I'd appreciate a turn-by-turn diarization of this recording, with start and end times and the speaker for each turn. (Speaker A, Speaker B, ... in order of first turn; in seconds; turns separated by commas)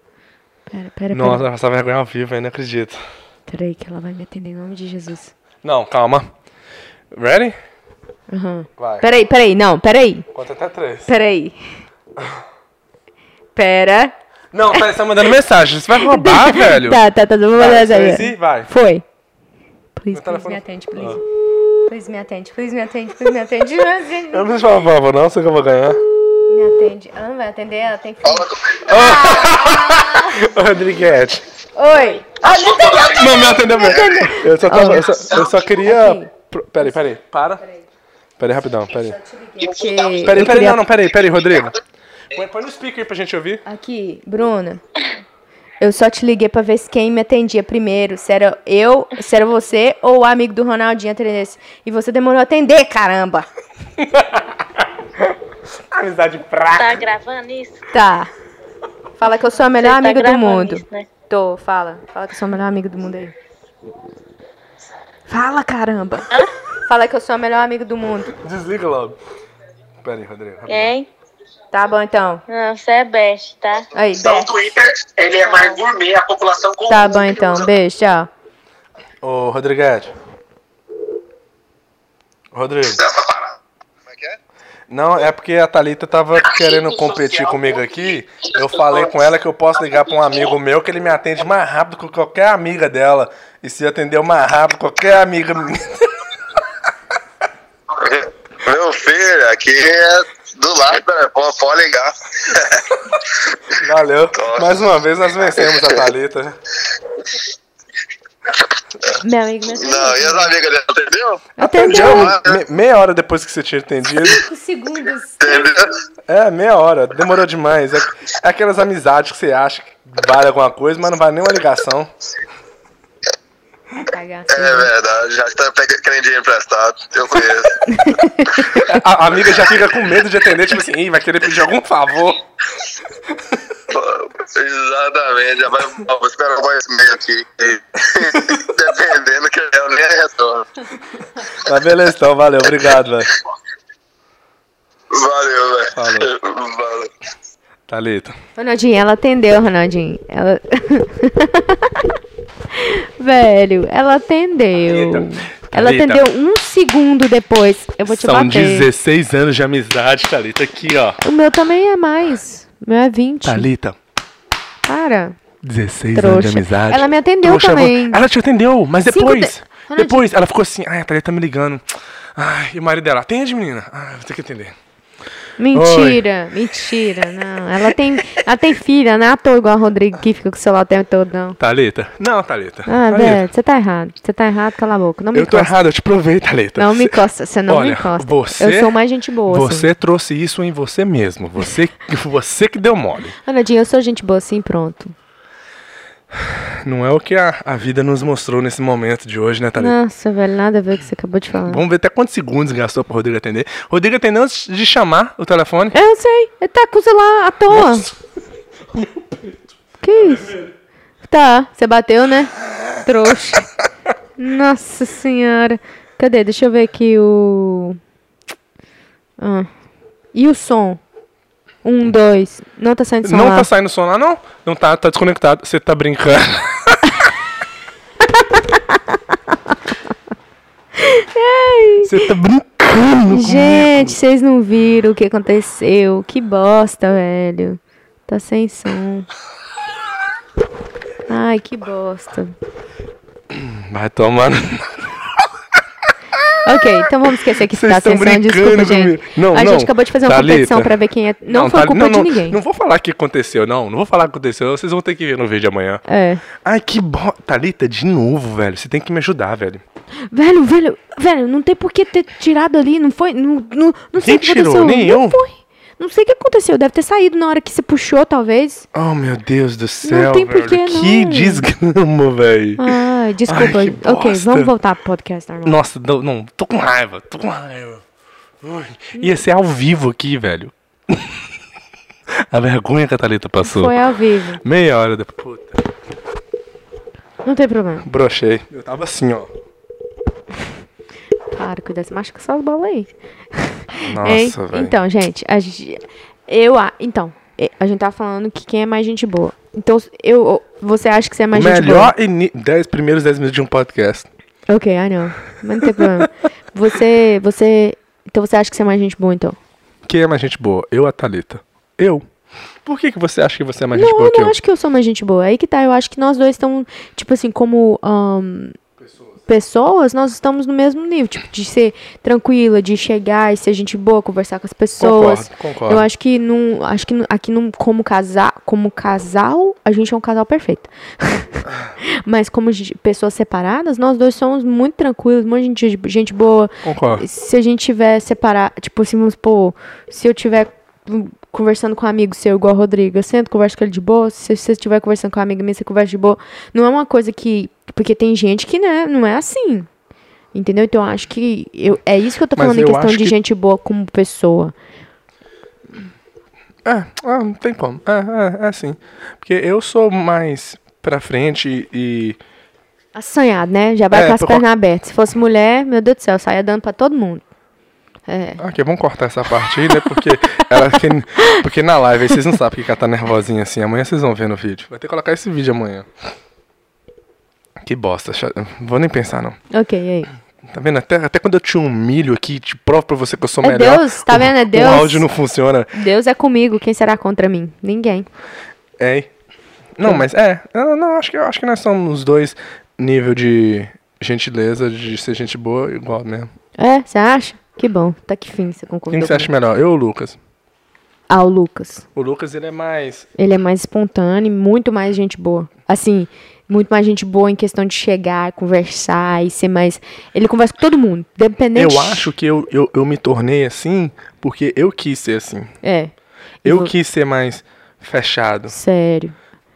Speaker A: 0.7-1.4, Speaker B: 1.1-3.0, Speaker A: 3.5-5.3, Speaker B: 5.6-6.3, Speaker B: 7.1-7.6, Speaker A: 8.3-10.3, Speaker B: 8.8-9.1, Speaker B: 10.3-11.1, Speaker A: 11.1-11.6, Speaker A: 13.6-14.2, Speaker B: 14.5-17.0, Speaker A: 15.9-19.0, Speaker B: 17.6-18.7, Speaker A: 20.0-21.2, Speaker B: 20.1-21.2, Speaker A: 21.8-24.5, Speaker B: 24.3-26.0, Speaker A: 26.5-30.5, Speaker C: 28.2-28.8, Speaker B: 28.8-31.4, Speaker A: 31.7-36.3, Speaker C: 32.5-33.2, Speaker B: 33.0-37.6, Speaker B: 38.4-39.2, Speaker A: 39.1-40.9, Speaker B: 40.2-41.8, Speaker B: 42.3-43.6, Speaker A: 43.7-44.8, Speaker A: 45.8-53.5, Speaker B: 54.0-55.1, Speaker B: 55.9-57.0, Speaker D: 56.8-57.8, Speaker A: 57.9-58.3, Speaker A: 59.2-63.4, Speaker D: 59.8-61.1, Speaker A: 65.3-68.3, Speaker B: 68.4-69.2, Speaker B: 70.0-70.9, Speaker D: 70.7-71.1, Speaker A: 71.7-72.4, Speaker D: 72.5-73.9, Speaker A: 73.9-74.5, Speaker E: 74.2-77.7, Speaker A: 76.9-78.3, Speaker B: 79.2-80.1, Speaker B: 82.5-83.0, Speaker E: 83.1-83.5, Speaker C: 84.1-84.4, Speaker B: 84.9-96.2, Speaker E: 87.1-87.4, Speaker C: 97.9-102.8, Speaker B: 103.7-106.6, Speaker C: 104.4-104.7, Speaker A: 109.2-110.5, Speaker C: 109.7-112.6, Speaker A: 111.6-112.4, Speaker B: 111.6-114.4, Speaker A: 114.2-115.7, Speaker C: 115.4-115.9, Speaker B: 116.3-122.1, Speaker A: 124.0-124.9, Speaker C: 124.5-128.1, Speaker A: 127.9-128.8, Speaker B: 128.7-132.4, Speaker C: 133.9-140.7, Speaker B: 138.3-138.7, Speaker B: 141.5-143.3, Speaker C: 145.1-147.1, Speaker B: 145.9-146.3, Speaker B: 147.9-148.4, Speaker A: 148.6-152.2, Speaker A: 152.7-158.9, Speaker B: 154.8-156.2, Speaker B: 158.1-161.2, Speaker A: 161.2-163.7, Speaker B: 163.4-164.0, Speaker A: 164.8-165.4, Speaker B: 165.6-171.8, Speaker A: 166.1-168.2, Speaker A: 169.1-170.3, Speaker B: 172.3-174.8, Speaker A: 175.6-181.6, Speaker B: 175.7-176.2, Speaker B: 181.6-183.4, Speaker A: 182.9-185.7, Speaker B: 185.3-189.0, Speaker A: 186.8-189.9, Speaker B: 189.5-193.4, Speaker A: 193.4-195.1, Speaker B: 196.4-200.0, Speaker A: 199.8-201.8, Speaker B: 201.7-206.0, Speaker A: 205.9-208.1, Speaker B: 207.7-208.1, Speaker B: 208.9-209.8, Speaker A: 210.0-210.6, Speaker A: 211.2-213.7, Speaker A: 214.4-218.0, Speaker A: 219.4-219.7, Speaker A: 220.3-221.0, Speaker A: 221.8-223.7, Speaker B: 223.2-227.2, Speaker A: 228.2-230.0, Speaker A: 230.9-232.3, Speaker B: 232.0-234.1, Speaker A: 233.3-239.3, Speaker A: 241.3-242.5, Speaker B: 243.5-245.4, Speaker A: 246.6-252.6, Speaker B: 247.7-250.9, Speaker B: 251.5-256.1, Speaker A: 256.1-256.4, Speaker B: 256.6-259.8, Speaker A: 260.3-268.9, Speaker B: 264.2-265.4, Speaker B: 268.9-272.9, Speaker A: 270.0-271.6, Speaker A: 272.8-275.8, Speaker B: 273.5-274.7, Speaker B: 275.6-278.0, Speaker B: 278.6-281.3, Speaker B: 282.5-283.9, Speaker A: 283.6-284.6, Speaker B: 284.6-285.8, Speaker A: 287.4-288.1, Speaker B: 288.1-289.5, Speaker A: 291.5-302.1, Speaker B: 294.0-295.0, Speaker B: 301.5-304.3, Speaker A: 304.7-309.6, Speaker B: 310.1-312.2, Speaker B: 312.9-314.6, Speaker A: 313.9-318.8, Speaker A: 319.5-349.9, Speaker B: 325.0-326.1, Speaker B: 336.8-337.2, Speaker A: 350.5-354.8, Speaker B: 352.5-353.4, Speaker B: 356.9-362.4, Speaker A: 363.1-367.4, Speaker B: 364.1-364.6, Speaker A: 368.3-368.6, Speaker B: 368.6-376.1, Speaker A: 369.9-370.2, Speaker B: 377.8-379.6, Speaker A: 379.7-380.3, Speaker B: 380.7-385.9, Speaker A: 383.6-385.3, Speaker A: 385.9-388.3, Speaker B: 389.0-389.3, Speaker B: 390.0-396.5, Speaker A: 396.8-399.5, Speaker B: 399.1-400.4, Speaker A: 401.3-402.0, Speaker B: 402.1-403.3, Speaker A: 403.4-412.3, Speaker B: 411.8-415.7, Speaker A: 415.8-416.1, Speaker A: 416.6-416.9, Speaker B: 416.6-418.8, Speaker A: 418.7-419.4